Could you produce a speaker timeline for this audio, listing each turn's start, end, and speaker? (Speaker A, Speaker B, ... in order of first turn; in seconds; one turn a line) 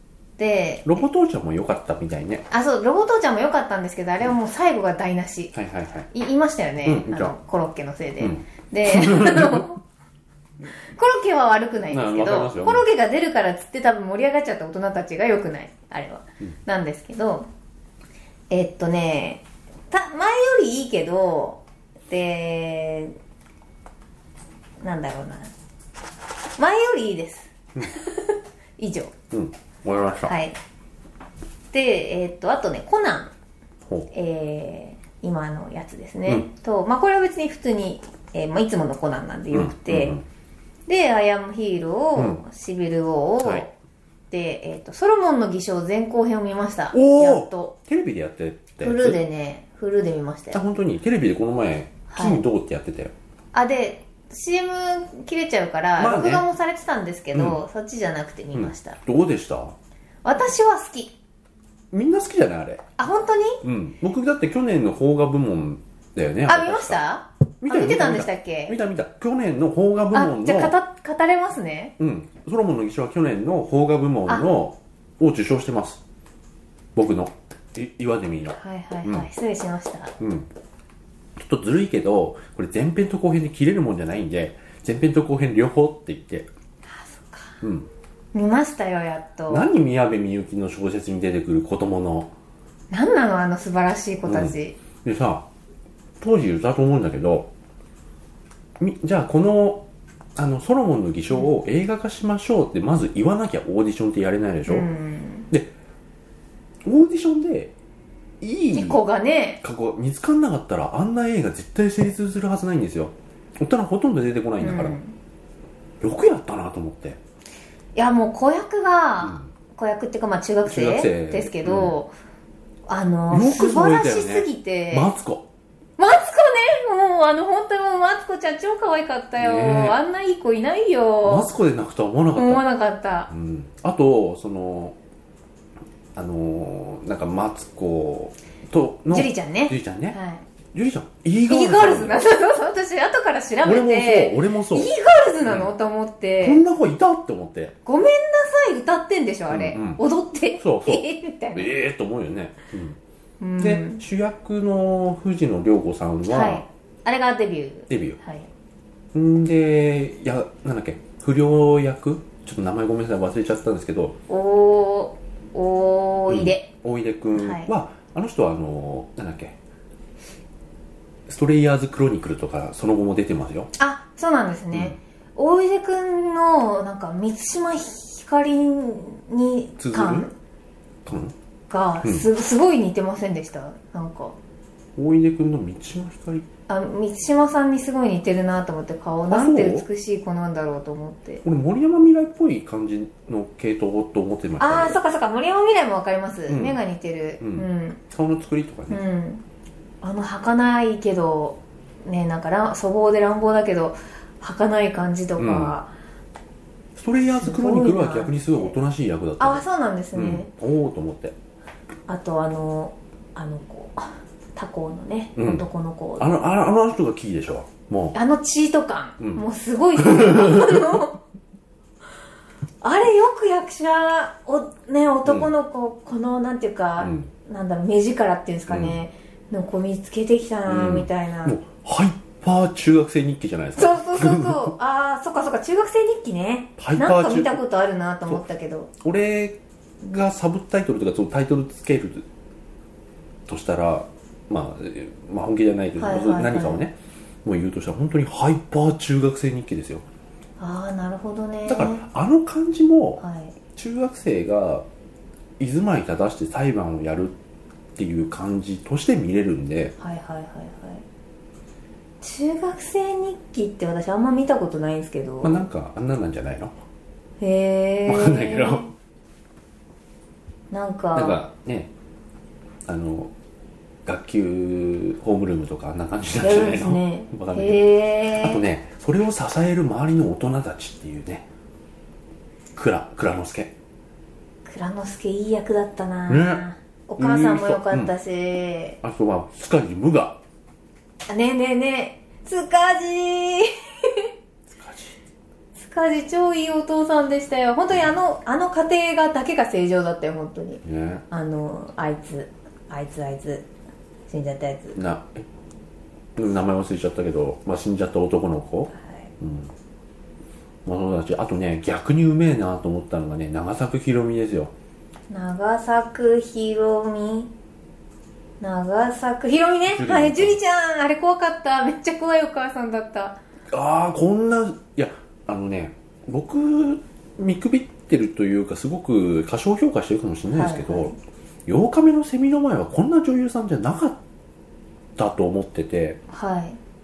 Speaker A: 0.4-1.1
Speaker B: 0.8-2.5
Speaker A: 2.5-5.5
Speaker B: 5.5-6.1
Speaker A: 6.1-9.8
Speaker B: 6.8-7.3
Speaker B: 8.2-9.7
Speaker A: 10.9-17.5
Speaker B: 11.9-12.9
Speaker A: 18.5-23.2
Speaker A: 24.8-25.5
Speaker A: 26.6-29.1
Speaker B: 29.3-30.3
Speaker A: 30.2-30.6
Speaker A: 31.7-33.3
Speaker A: 34.1-40.2
Speaker B: 39.5-40.2
Speaker A: 40.9-43.7
Speaker B: 42.1-42.4
Speaker B: 43.4-43.7
Speaker A: 44.3-47.7
Speaker B: 46.9-49.2
Speaker A: 48.8-50.6
Speaker B: 50.5-53.1
Speaker A: 52.1-52.4
Speaker A: 53.5-59.0
Speaker B: 56.0-56.4
Speaker B: 57.3-57.6
Speaker B: 58.5-59.8
Speaker A: 60.2-61.1
Speaker B: 61.9-62.8
Speaker A: 63.0-63.6
Speaker B: 63.6-67.0
Speaker A: 66.5-68.8
Speaker B: 67.6-70.8
Speaker A: 70.1-72.0
Speaker B: 72.0-76.0
Speaker B: 76.9-79.3
Speaker A: 78.5-80.1
Speaker B: 80.2-80.5
Speaker B: 81.3-86.5
Speaker A: 86.8-87.6
Speaker B: 87.6-87.9
Speaker A: 88.3-89.7
Speaker B: 89.5-92.3
Speaker A: 92.9-94.8
Speaker B: 94.2-95.5
Speaker B: 96.2-97.5
Speaker B: 98.8-99.8
Speaker B: 100.3-104.9
Speaker A: 104.7-105.5
Speaker B: 106.8-107.7
Speaker B: 108.4-109.0
Speaker A: 108.7-109.6
Speaker B: 109.6-115.0
Speaker A: 114.6-115.2
Speaker B: 116.0-117.2
Speaker A: 117.9-122.1
Speaker B: 119.2-119.5
Speaker B: 120.6-121.9
Speaker A: 122.9-125.1
Speaker B: 123.3-125.4
Speaker A: 126.0-131.5
Speaker B: 129.4-130.0
Speaker B: 131.2-132.6
Speaker A: 132.3-133.3
Speaker B: 133.3-134.9
Speaker B: 136.1-140.2
Speaker A: 139.1-140.4
Speaker B: 140.7-142.2
Speaker A: 141.5-146.6
Speaker B: 143.6-144.9
Speaker B: 145.4-145.7
Speaker B: 146.4-147.7
Speaker A: 147.8-151.7
Speaker B: 149.5-150.0
Speaker B: 150.6-153.0
Speaker A: 153.4-154.0
Speaker B: 153.6-156.6
Speaker A: 156.3-158.5
Speaker B: 157.9-158.2
Speaker B: 159.1-164.2
Speaker A: 164.3-166.7
Speaker B: 166.3-169.6
Speaker A: 167.3-167.7
Speaker B: 171.3-173.7
Speaker A: 173.8-180.3
Speaker B: 174.7-175.0
Speaker B: 179.8-180.3
Speaker B: 181.0-181.3
Speaker A: 181.7-184.3
Speaker B: 184.9-186.4
Speaker A: 186.7-191.4
Speaker B: 189.3-189.8
Speaker B: 191.4-195.0
Speaker A: 194.6-198.0
Speaker B: 196.5-196.8
Speaker B: 197.4-199.0
Speaker A: 198.9-199.4
Speaker A: 200.0-205.9
Speaker B: 205.4-205.8
Speaker B: 206.9-209.6
Speaker A: 207.3-208.7
Speaker A: 209.4-210.5
Speaker B: 210.1-211.3
Speaker A: 212.1-216.4
Speaker B: 215.3-215.7
Speaker B: 216.2-218.2
Speaker A: 218.1-221.2
Speaker B: 219.2-219.4
Speaker B: 220.0-221.0
Speaker A: 222.8-231.6
Speaker B: 225.2-225.5
Speaker B: 227.0-227.3
Speaker B: 228.7-229.0
Speaker B: 230.7-234.8
Speaker A: 233.8-238.9
Speaker B: 236.8-237.6
Speaker B: 239.0-242.2
Speaker B: 243.5-250.0
Speaker A: 246.0-246.8
Speaker A: 250.6-252.0
Speaker B: 251.7-253.2
Speaker A: 253.2-253.6
Speaker B: 253.7-254.8
Speaker B: 255.6-257.4
Speaker B: 257.9-259.9
Speaker A: 260.0-261.0
Speaker A: 262.2-265.6
Speaker B: 265.4-266.7
Speaker A: 267.4-268.9
Speaker B: 268.1-268.9
Speaker A: 270.7-271.4
Speaker B: 271.1-271.9
Speaker B: 272.9-273.3
Speaker B: 274.0-281.4
Speaker A: 276.4-278.6
Speaker B: 282.7-283.7
Speaker A: 284.6-289.0
Speaker B: 286.3-286.6
Speaker B: 287.2-288.1
Speaker B: 289.0-290.4
Speaker A: 291.3-294.3
Speaker B: 294.7-295.1
Speaker A: 295.8-303.7
Speaker B: 300.8-301.2
Speaker A: 304.3-305.0
Speaker B: 304.9-305.5
Speaker B: 306.4-309.7
Speaker A: 308.9-309.3
Speaker B: 310.8-314.7
Speaker A: 315.3-317.5
Speaker A: 318.6-323.4
Speaker B: 319.9-320.6
Speaker B: 323.7-331.1
Speaker A: 330.5-331.2
Speaker B: 331.6-334.2
Speaker B: 335.1-336.2
Speaker A: 336.3-336.8